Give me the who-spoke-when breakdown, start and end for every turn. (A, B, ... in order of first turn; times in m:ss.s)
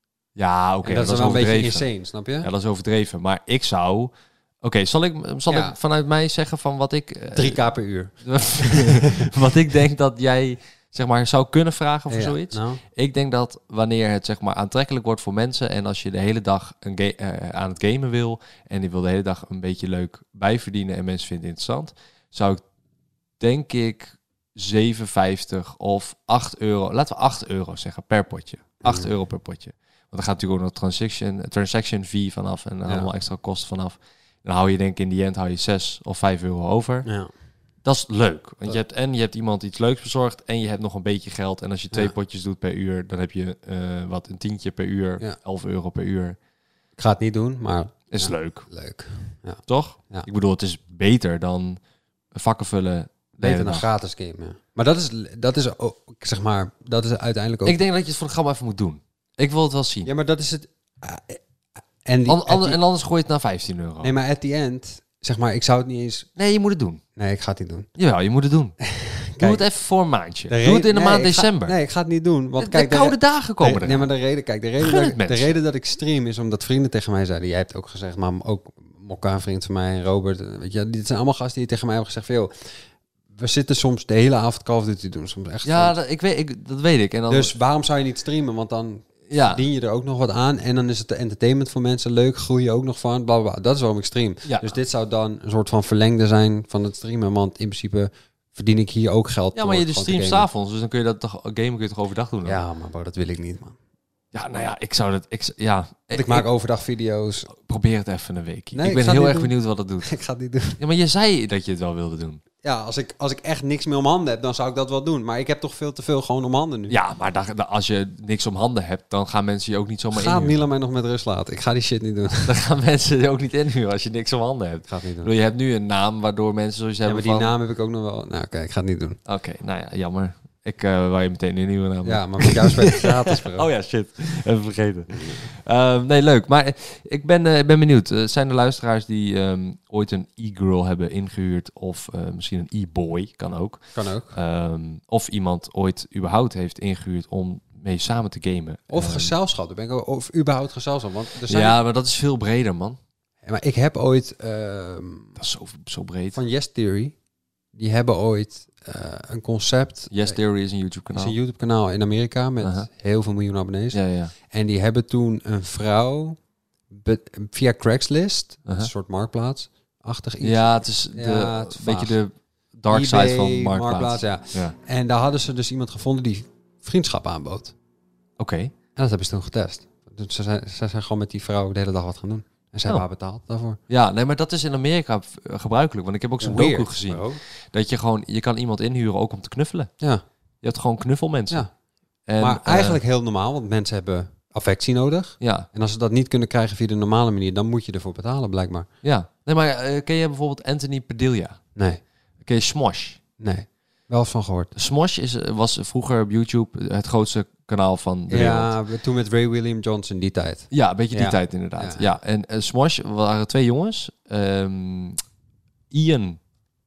0:00.4-0:01.9 A
0:00.8-0:02.5 B
0:02.4-0:07.6 A
0:05.5-0:05.8 B
0:07.3-0:09.3 B
0:08.2-0:22.6 A
0:12.1-0:12.8 B
0:23.4-0:37.1 A
0:28.8-0:29.1 B
0:37.0-0:37.3 B
0:37.8-0:46.4 A
0:47.0-0:50.3 B
0:48.1-0:48.7 A
0:49.7-0:51.8 A
0:52.3-0:53.9 A
0:53.4-0:57.8 B
0:57.6-1:00.1 A
1:00.0-1:01.4 B
1:02.0-1:02.8 B
1:02.3-1:04.1 A
1:04.0-1:06.3 B
1:06.4-1:07.0 A
1:07.2-1:07.9 B
1:08.0-1:08.8 A
1:08.9-1:09.6 B
1:09.4-1:11.7 A
1:10.5-1:22.5 B
1:12.6-1:14.1 A
1:14.8-1:15.5 A
1:23.4-1:26.0 B
1:25.6-1:27.5 A
1:27.3-1:40.4 B
1:29.3-1:29.6 A
1:34.4-1:34.8 A
1:39.5-1:42.6 A
1:42.4-1:43.8 B
1:44.3-1:46.4 A
1:46.1-1:47.5 B
1:47.5-1:50.1 A
1:48.7-1:50.8 B
1:50.8-1:52.4 A
1:52.6-1:57.0 B
1:56.9-2:00.6 A
2:00.1-2:02.6 B
2:02.4-2:07.5 A
2:04.9-2:05.3 B
2:07.0-2:09.2 B
2:09.2-2:29.3 A
2:12.0-2:13.7 B
2:23.9-2:24.4 B
2:28.9-2:31.8 B
2:31.5-2:33.0 A
2:33.4-2:35.4 B
2:35.4-2:36.4 A
2:36.3-2:37.1 B
2:37.7-2:40.4 B
2:40.1-2:41.4 A
2:41.1-2:44.0 B
2:42.6-2:42.9 A
2:43.9-2:44.3 A
2:44.5-2:46.4 B
2:46.9-2:52.2 B
2:48.6-2:48.9 A
2:50.4-2:54.7 A
2:52.9-2:57.7 B
2:58.4-2:58.7 A
2:59.0-3:03.8 B
3:03.9-3:09.9 A
3:06.4-3:07.4 B
3:10.6-3:11.6 A
3:12.2-3:13.0 A
3:12.4-3:18.9 B
3:15.4-3:15.7 A
3:19.0-3:21.6 A
3:21.8-3:22.0 B
3:22.4-3:23.2 A
3:23.4-3:24.7 B
3:24.7-3:28.7 A
3:28.3-3:32.1 B
3:30.7-3:35.2 A
3:35.9-3:36.4 A